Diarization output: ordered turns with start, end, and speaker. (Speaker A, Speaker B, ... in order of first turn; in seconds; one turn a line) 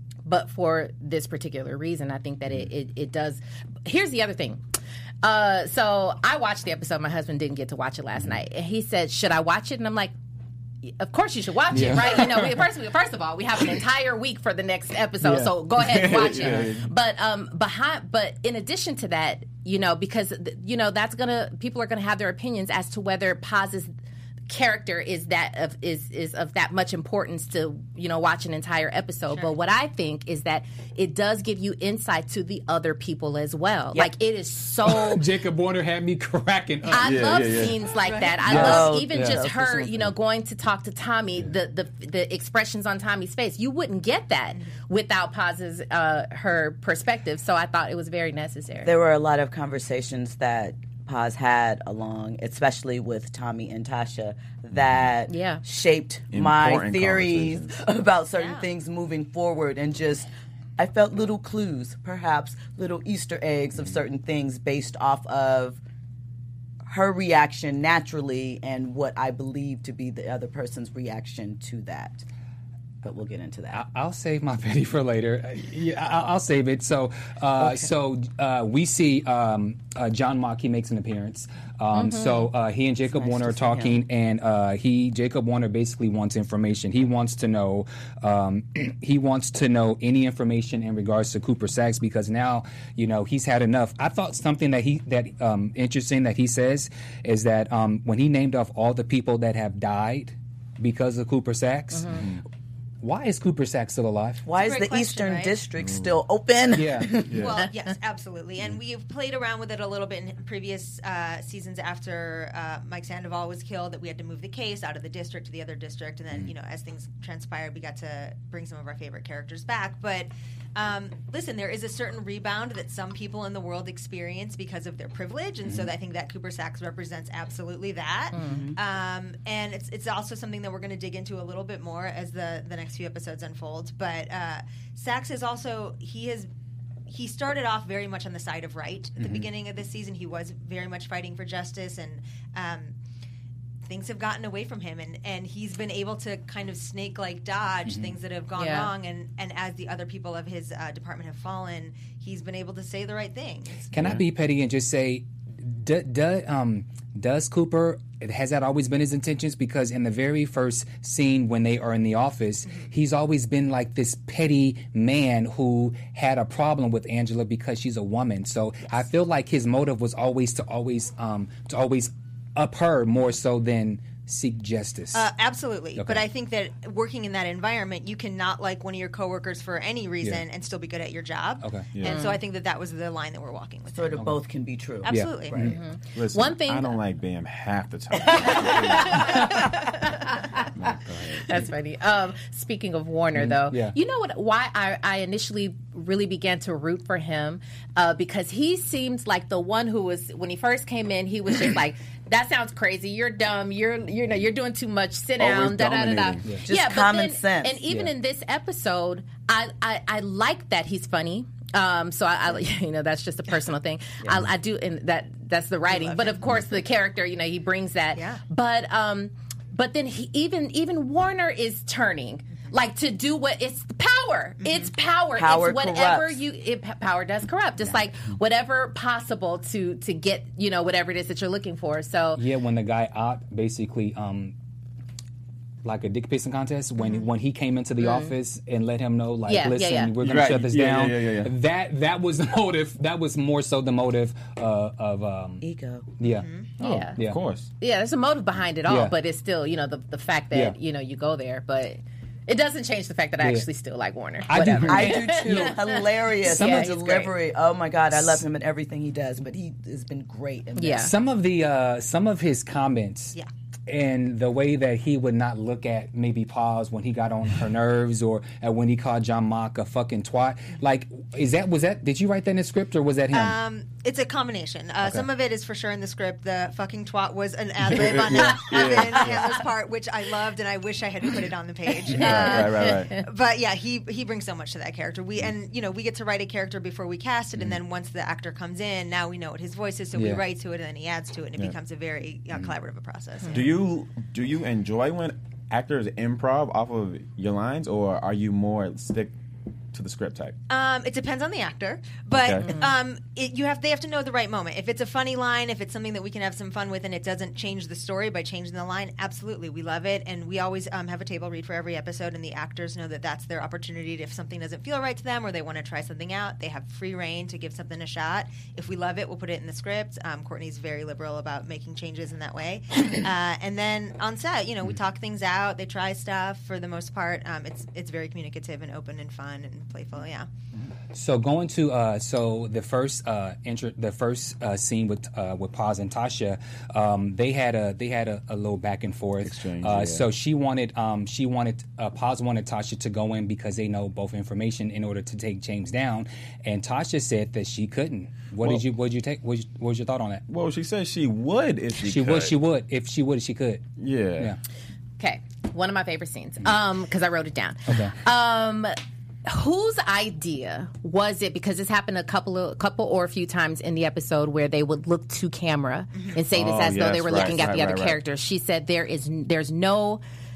Speaker A: 0.2-4.6
Speaker A: 5.2-10.1
Speaker A: 10.9-23.9
Speaker B: 11.7-12.6
Speaker B: 15.2-15.5
Speaker C: 15.7-16.9
Speaker B: 16.4-16.7
Speaker A: 24.5-35.2
Speaker B: 34.8-37.5
Speaker A: 36.9-48.9
Speaker C: 37.0-37.7
Speaker D: 38.0-38.4
Speaker E: 38.4-40.1
Speaker B: 38.5-39.4
Speaker E: 48.8-65.8
Speaker A: 55.3-55.6
Speaker C: 56.3-57.8
Speaker D: 58.3-58.7
Speaker E: 66.8-72.2
Speaker E: 73.0-73.8
Speaker B: 73.7-102.3
Speaker E: 77.6-77.9
Speaker A: 81.9-82.5
Speaker E: 83.0-84.0
Speaker A: 101.9-102.2
Speaker C: 102.1-102.4
Speaker B: 103.0-104.4
Speaker E: 104.4-107.4
Speaker D: 104.5-105.5
Speaker C: 105.8-106.2
Speaker B: 106.7-107.2
Speaker C: 107.3-107.5
Speaker D: 107.3-136.5
Speaker A: 128.3-128.7
Speaker E: 128.4-128.8
Speaker D: 137.1-142.9
Speaker D: 143.8-153.9
Speaker B: 147.8-148.2
Speaker A: 148.6-148.9
Speaker C: 153.9-154.2
Speaker B: 153.9-175.3
Speaker D: 175.1-184.3
Speaker B: 175.9-176.2
Speaker B: 181.6-181.9
Speaker C: 181.9-182.2
Speaker A: 182.1-182.4
Speaker E: 183.9-185.7
Speaker D: 185.0-185.6
Speaker B: 185.1-185.8
Speaker A: 185.6-187.0
Speaker C: 186.1-189.4
Speaker E: 188.2-189.5
Speaker A: 188.4-190.7
Speaker C: 190.7-191.4
Speaker A: 191.4-232.4
Speaker B: 193.3-193.9
Speaker C: 205.4-206.5
Speaker E: 206.6-207.8
Speaker E: 215.9-216.4
Speaker D: 218.1-218.4
Speaker D: 224.6-224.9
Speaker E: 225.3-226.4
Speaker B: 232.3-234.5
Speaker B: 235.8-245.6
Speaker A: 238.0-238.3
Speaker A: 239.5-240.1
Speaker C: 240.2-241.5
Speaker E: 245.6-246.1
Speaker B: 246.2-246.5
Speaker D: 246.2-246.7
Speaker A: 246.8-247.1
Speaker C: 246.8-247.7
Speaker A: 247.8-257.2
Speaker B: 248.9-249.1
Speaker B: 253.4-253.7
Speaker B: 254.5-255.8
Speaker E: 254.8-261.1
Speaker B: 256.4-257.3
Speaker B: 258.1-258.4
Speaker A: 260.8-261.1
Speaker B: 261.0-263.4
Speaker B: 263.9-273.6
Speaker D: 273.3-293.7
Speaker C: 277.9-279.4
Speaker C: 282.1-283.2
Speaker A: 282.2-283.2
Speaker B: 290.1-290.4
Speaker C: 293.5-299.3
Speaker C: 299.9-300.6
Speaker D: 300.7-330.5
Speaker C: 302.3-302.7
Speaker A: 302.6-302.9
Speaker B: 331.1-350.4
Speaker C: 339.4-340.2
Speaker C: 350.5-352.5
Speaker B: 352.1-353.8
Speaker C: 354.0-354.5
Speaker A: 355.2-370.2
Speaker B: 357.9-358.1
Speaker C: 366.5-368.2